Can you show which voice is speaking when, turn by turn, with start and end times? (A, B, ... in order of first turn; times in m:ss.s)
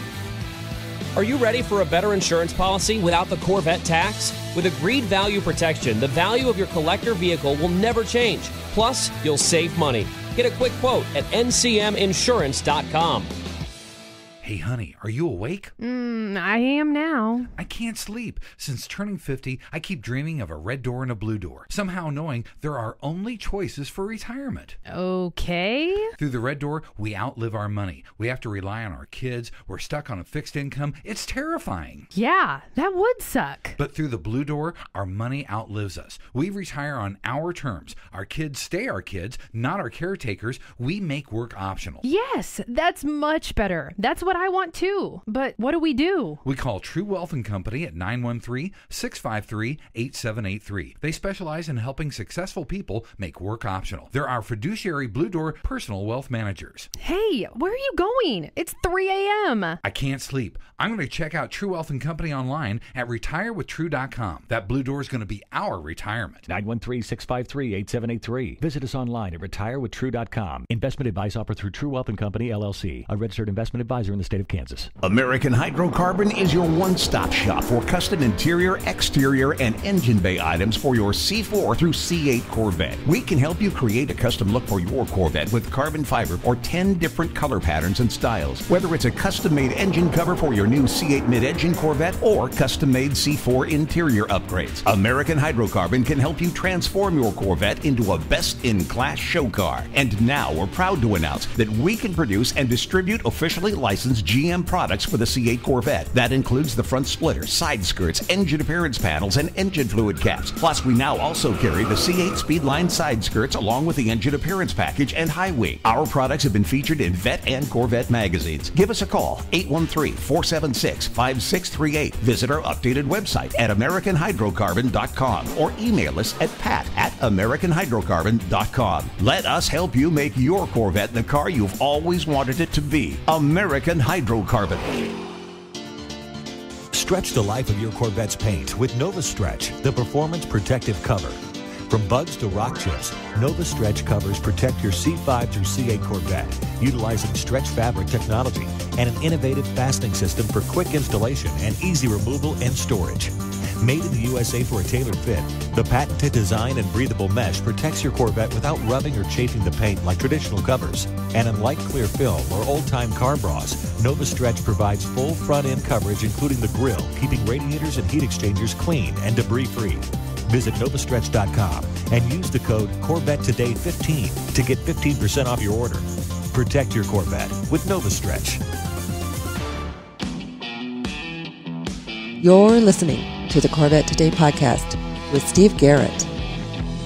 0:01.2-0:13.3 A
0:14.4-0:15.7 B
0:15.8-0:17.5 C
0:17.6-0:24.8 B
0:24.9-0:26.1 C
0:26.2-0:32.1 B
0:32.1-0:33.8 C
0:33.8-0:42.0 B
0:42.0-0:46.4 C
0:46.4-0:56.9 B
0:57.0-0:59.8 C
0:59.8-1:06.4 B
1:06.4-1:14.9 D
1:15.0-2:14.9 E
2:16.9-2:58.6 D
3:02.4-3:06.3 F